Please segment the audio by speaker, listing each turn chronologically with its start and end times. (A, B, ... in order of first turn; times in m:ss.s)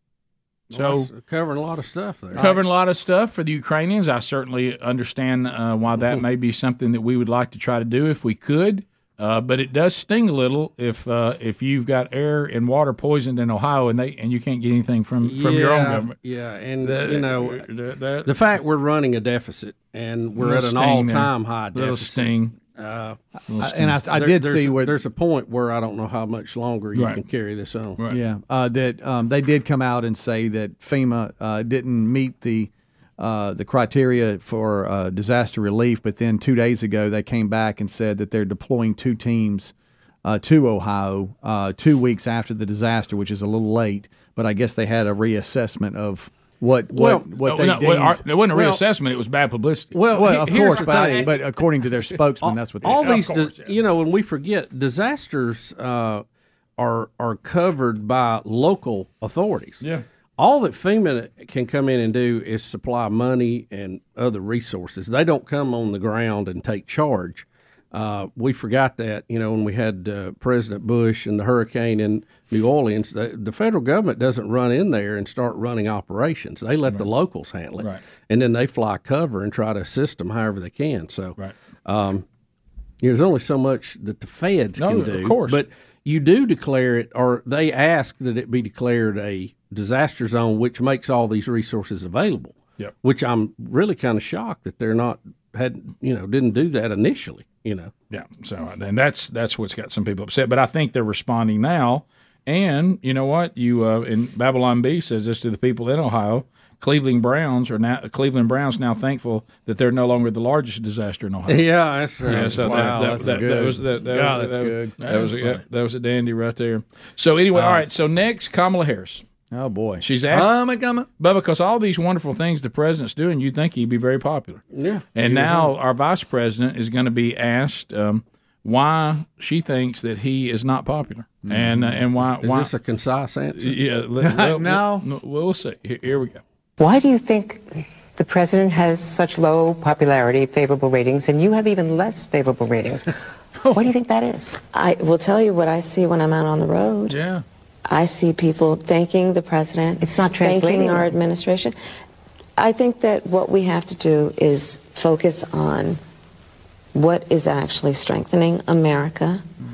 0:00.7-0:02.6 A
0:00.7-0:01.1 B
0:02.4-0:16.1 B
0:15.2-0:17.6 A
0:16.8-0:18.3 B
0:18.2-0:23.2 A
0:20.4-0:22.5 B
0:23.5-0:24.0 B
0:23.6-0:25.0 C
0:24.0-0:28.0 A
0:26.9-0:27.2 B
0:28.1-0:39.7 C
0:40.2-0:48.2 C
0:46.9-0:47.3 A
0:47.4-0:50.7 B
0:48.5-0:48.8 A
0:49.9-0:51.3 A
0:50.1-0:53.3 C
0:52.4-0:56.2 A
0:52.9-0:53.5 B
0:56.8-0:59.8 A
1:00.4-1:22.2 A
1:23.0-1:37.9 A
1:24.8-1:25.6 B
1:38.1-1:51.7 B
1:51.5-1:53.3 A
1:52.2-1:59.2 B
1:52.3-1:55.6 C
1:59.5-2:01.1 C
2:00.0-2:04.6 B
2:04.7-2:05.7 A
2:05.1-2:12.7 B
2:12.4-2:13.8 A
2:13.6-2:16.4 B
2:14.2-2:15.0 C
2:16.8-2:23.1 D
2:23.7-2:24.5 D
2:24.7-2:27.2 E
2:27.9-2:31.7 E
2:30.0-2:31.2 D
2:32.6-2:36.0 E
2:36.9-2:39.4 E